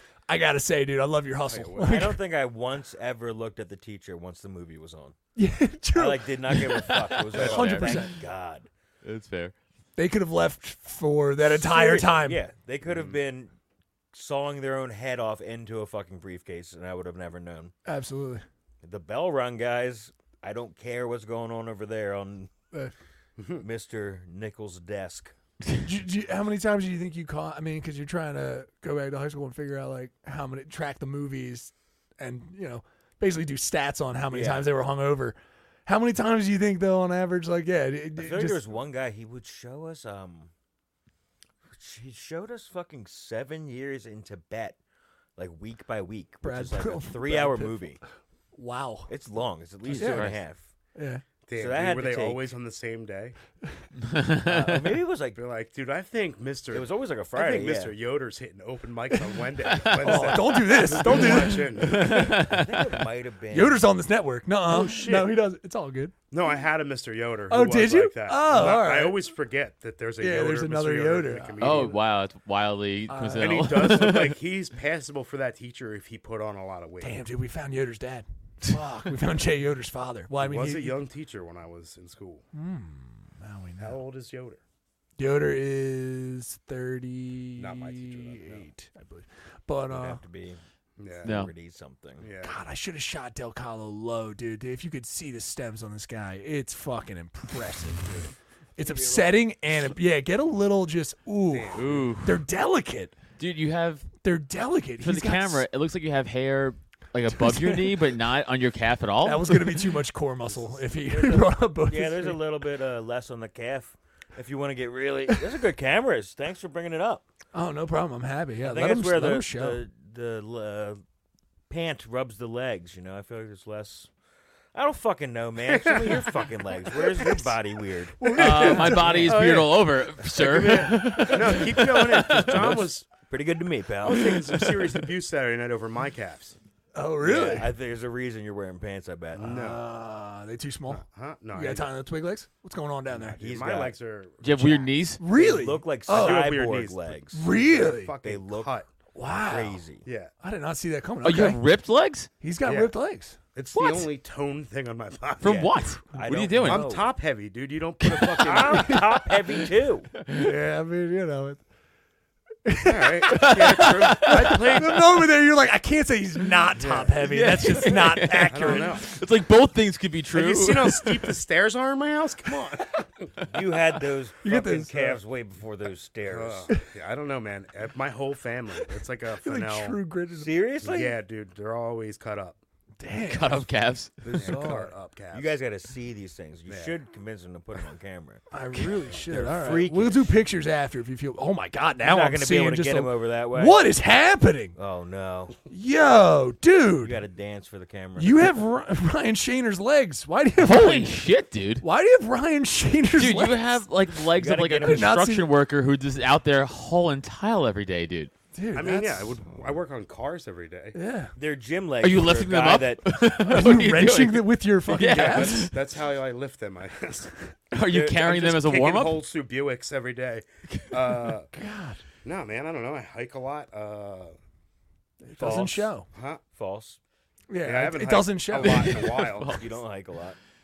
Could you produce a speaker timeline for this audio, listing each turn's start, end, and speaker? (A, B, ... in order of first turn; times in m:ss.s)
0:00.3-0:02.2 A
0:01.5-0:02.1 B
0:01.8-0:05.2 C
0:05.4-0:08.1 A
0:05.9-0:08.7 C
0:07.3-0:08.0 D
0:09.0-0:09.5 D
0:10.0-0:12.4 A
0:11.4-0:13.5 C
0:12.8-0:13.2 B
0:14.1-0:17.7 C
0:17.8-0:18.4 A
0:18.8-0:22.5 C
0:23.4-0:23.6 B
0:23.6-0:25.3 C
0:25.8-0:38.6 A
0:34.3-0:34.7 C
0:38.2-0:40.5 C
0:41.7-0:44.8 C
0:45.4-0:48.0 C
0:46.4-0:49.1 A
0:49.1-0:50.7 C
0:49.9-0:50.4 D
0:49.9-0:50.3 A
0:50.9-0:51.2 A
0:51.5-0:53.4 B
0:51.5-0:52.5 C
0:54.0-0:54.9 D
0:54.4-0:55.4 C
0:55.3-1:02.4 B
0:56.7-0:58.0 C
0:59.8-1:00.4 D
1:00.0-1:02.2 A
1:01.1-1:02.9 D
1:02.4-1:03.9 C
1:03.5-1:06.1 A
1:04.7-1:05.4 B
1:06.3-1:12.0 B
1:07.5-1:09.2 A
1:10.2-1:11.6 A
1:11.6-1:14.4 D
1:13.1-1:13.6 A
1:13.4-1:17.2 B
1:17.0-1:21.0 A
1:20.4-1:22.4 B
1:22.5-1:24.0 A
1:23.8-1:24.6 B
1:25.2-1:30.2 A
1:27.6-1:28.7 B
1:29.9-1:30.6 C
1:31.0-1:31.3 B
1:31.2-1:32.3 C
1:31.2-1:31.5 D
1:32.2-1:32.6 B
1:32.4-1:43.1 A
1:38.8-1:39.2 B
1:41.5-1:42.1 B
1:41.7-1:42.4 D
1:43.4-1:44.1 D
1:44.2-1:45.6 A
1:45.0-1:49.9 D
1:47.3-1:48.0 A
1:49.2-1:52.4 A
1:51.0-1:57.2 C
1:57.5-1:59.8 A
1:58.6-2:01.0 C
2:01.7-2:04.1 C
2:04.7-2:08.3 C
2:05.7-2:07.4 B
2:08.2-2:09.4 A
2:08.3-2:13.1 B
2:08.4-2:12.8 D
2:11.0-2:11.3 A
2:12.4-2:14.4 C
2:14.0-2:16.6 B
2:16.9-2:17.7 A
2:17.2-2:19.5 C
2:19.4-2:19.8 B
2:19.4-2:23.4 A
2:20.9-2:21.9 B
2:23.1-2:24.9 B
2:23.4-2:24.0 C
2:24.4-2:25.2 D
2:25.2-2:26.6 A
2:25.3-2:27.4 C
2:26.1-2:28.9 B
2:27.3-2:28.1 A
2:28.2-2:28.8 C
2:29.1-2:29.8 A
2:29.3-2:30.0 C
2:30.0-2:30.3 B
2:30.4-2:31.6 A
2:31.2-2:32.3 D
2:32.4-2:33.4 A
2:32.6-2:32.9 B
2:33.5-2:35.7 B
2:33.7-2:34.1 D
2:35.4-2:36.9 D
2:35.4-2:37.1 C
2:36.6-2:39.0 B
2:38.0-2:38.5 D
2:38.4-2:40.1 C
2:38.7-2:39.1 A
2:40.2-2:40.5 D
2:40.3-2:41.6 A
2:42.6-2:49.0 A
2:42.8-2:45.2 B
2:43.3-2:44.8 D
2:46.8-2:47.2 B
2:47.2-2:51.3 D
2:48.4-2:49.1 B
2:50.3-2:53.3 B
2:53.5-2:56.7 C
2:54.4-2:55.2 A
2:56.2-3:00.0 B
2:59.4-3:00.5 A
3:00.3-3:01.2 C
3:00.8-3:02.6 B
3:03.0-3:03.6 A
3:03.2-3:04.1 D
3:04.2-3:08.4 C
3:04.3-3:05.6 B
3:06.7-3:07.0 B
3:08.5-3:14.8 A
3:09.1-3:10.3 C
3:12.0-3:13.9 C
3:14.8-3:15.6 C
3:15.7-3:17.2 A
3:17.0-3:18.6 C
3:18.2-3:21.2 A
3:20.6-3:21.8 D
3:21.8-3:23.8 A
3:23.2-3:28.3 D
3:24.3-3:25.2 C
3:24.8-3:25.5 A
3:28.5-3:29.4 A
3:28.7-3:31.0 B
3:30.9-3:31.3 A
3:31.4-3:33.1 C
3:32.0-3:35.8 D
3:33.4-3:35.6 A
3:35.0-3:41.5 B
3:37.7-3:39.2 D
3:40.7-3:41.3 D
3:41.5-3:42.0 A
3:42.2-3:44.3 B
3:45.2-3:46.1 A
3:45.4-3:45.9 C
3:45.4-3:46.4 B
3:46.5-3:47.0 C
3:47.5-3:49.0 A
3:47.6-3:49.7 B
3:48.5-3:49.6 D
3:49.4-3:50.4 C